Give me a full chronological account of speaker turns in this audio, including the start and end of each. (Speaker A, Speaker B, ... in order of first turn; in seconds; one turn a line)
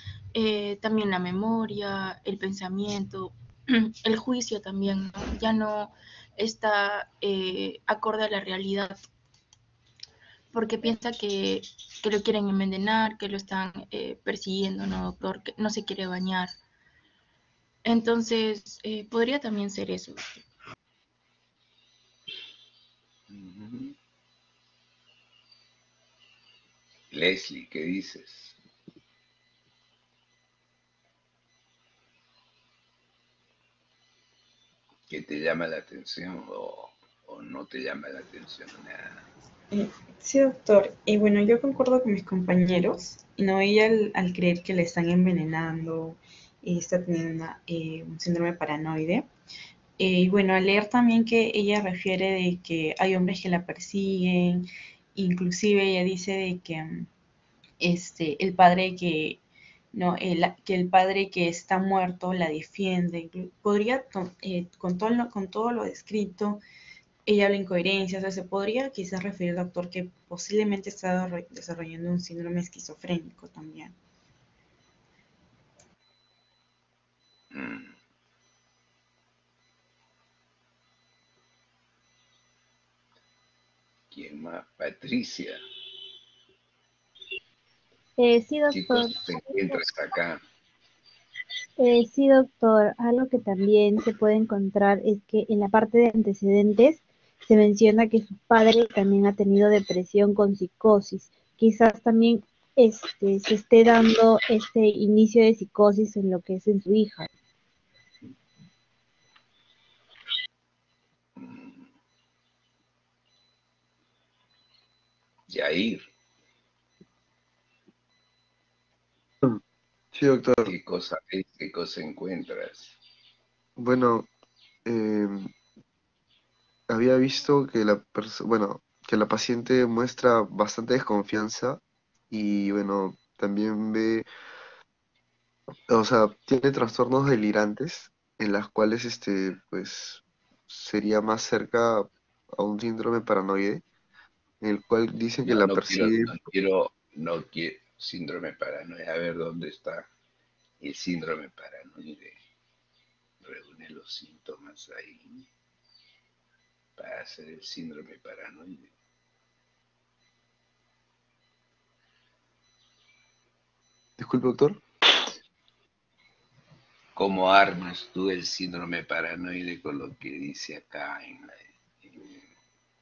Speaker A: 0.3-9.0
Speaker A: 10.5-16.5
Speaker A: 17.8-20.4
Speaker B: 23.3-23.9
Speaker B: 27.1-28.6
Speaker B: 35.1-39.3
Speaker C: 39.7-49.3
Speaker C: 50.0-57.1
Speaker C: 57.8-59.4
Speaker C: 59.9-66.6
Speaker C: 67.2-74.0
Speaker B: 77.5-78.0
Speaker B: 84.1-85.6
Speaker D: 88.2-89.8
Speaker B: 88.7-90.4
Speaker D: 91.8-107.3
Speaker B: 111.3-111.9
Speaker B: 115.5-116.0
Speaker E: 120.1-120.7
Speaker B: 120.6-123.0
Speaker E: 123.8-124.3
Speaker E: 124.8-125.5
Speaker E: 126.9-134.3
Speaker E: 135.9-143.8
Speaker E: 144.6-146.3
Speaker B: 145.5-150.1
Speaker B: 150.8-152.4
Speaker B: 153.4-155.5
Speaker B: 157.0-158.9
Speaker E: 164.2-164.8
Speaker B: 167.2-172.4